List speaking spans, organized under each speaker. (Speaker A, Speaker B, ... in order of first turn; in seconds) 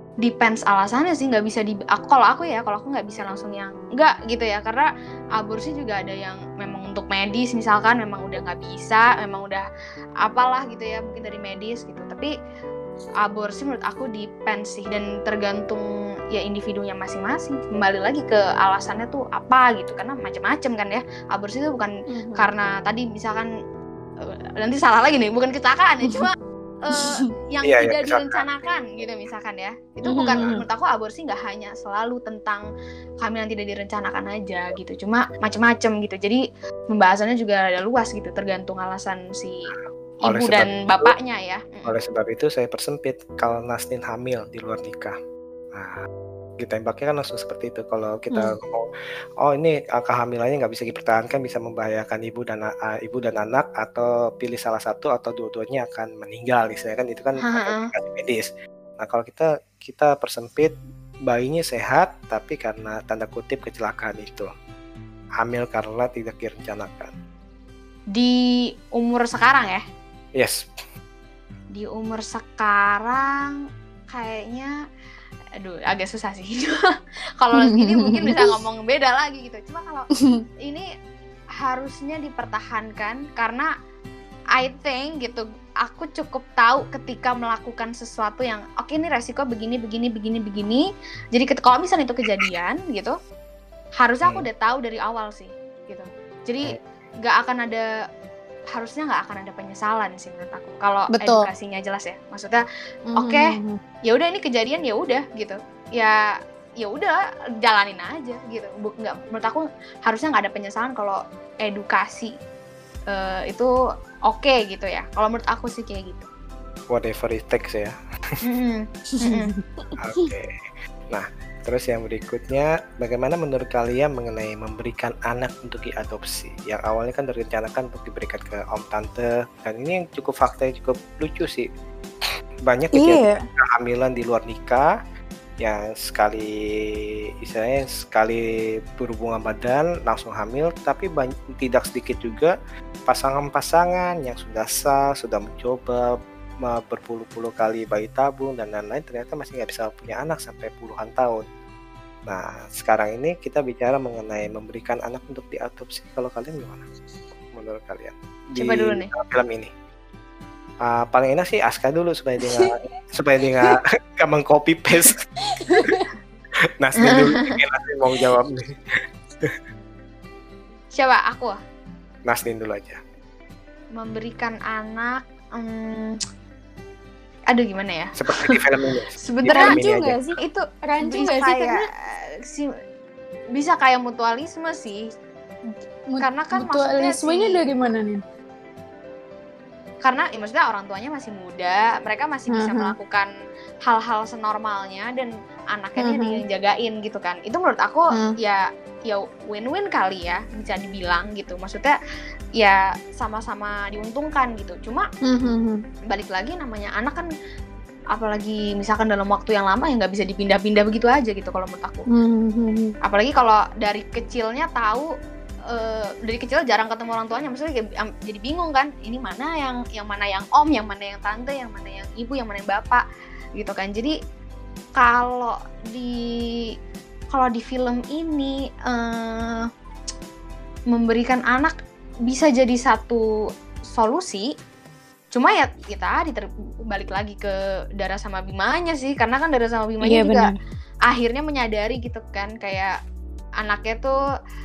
Speaker A: 0.2-9.7, 10.2-12.3, 13.2-23.5, 24.3-32.7, 33.2-39.7, 40.2-41.9, 57.4-57.9, 68.9-69.8, 71.7-74.7, 75.6-76.8, 77.4-80.1, 81.6-83.7, 84.6-93.2, 94.0-97.9, 98.7-102.6, 103.2-103.5, 104.1-106.2, 106.8-112.3, 113.1-113.7, 114.3-116.3, 118.4-119.5, 158.6-159.1, 167.0-167.5, 171.0-171.6, 173.9-176.2, 177.5-178.6, 179.2-179.8, 180.4-182.7, 183.5-185.1, 186.2-187.6, 190.0-193.3, 193.9-202.0, 202.6-205.1, 206.1-207.3, 208.1-212.1, 213.0-215.1, 215.7-223.1, 223.6-224.2, 225.0-226.7, 227.3-229.7, 230.9-231.7, 232.3-233.2, 233.9-234.5, 235.3-240.5, 241.1-243.0, 243.6-244.2
Speaker B: 22.1-22.5, 26.9-27.3, 30.1-30.6, 77.5-78.6, 101.2-101.4, 103.1-103.8, 119.2-120.3, 132.9-133.4, 165.5-166.1, 179.5-181.9, 186.1-188.2, 192.5-192.9, 196.0-196.4, 205.3-205.8, 212.1-212.9, 240.0-240.6
Speaker C: 27.6-28.4, 39.7-41.1, 41.9-45.1, 45.7-46.1, 46.6-48.9, 49.4-60.7, 61.3-64.5, 65.4-67.1, 70.4-70.7, 116.9-118.0, 120.0-120.5, 121.1-131.7, 132.7-134.9, 135.6-136.5, 137.4-142.6, 143.1-146.1, 146.7-151.4, 152.3-156.9, 157.4-159.7, 160.8-165.2, 166.8-168.8, 172.3-173.0, 178.2-180.2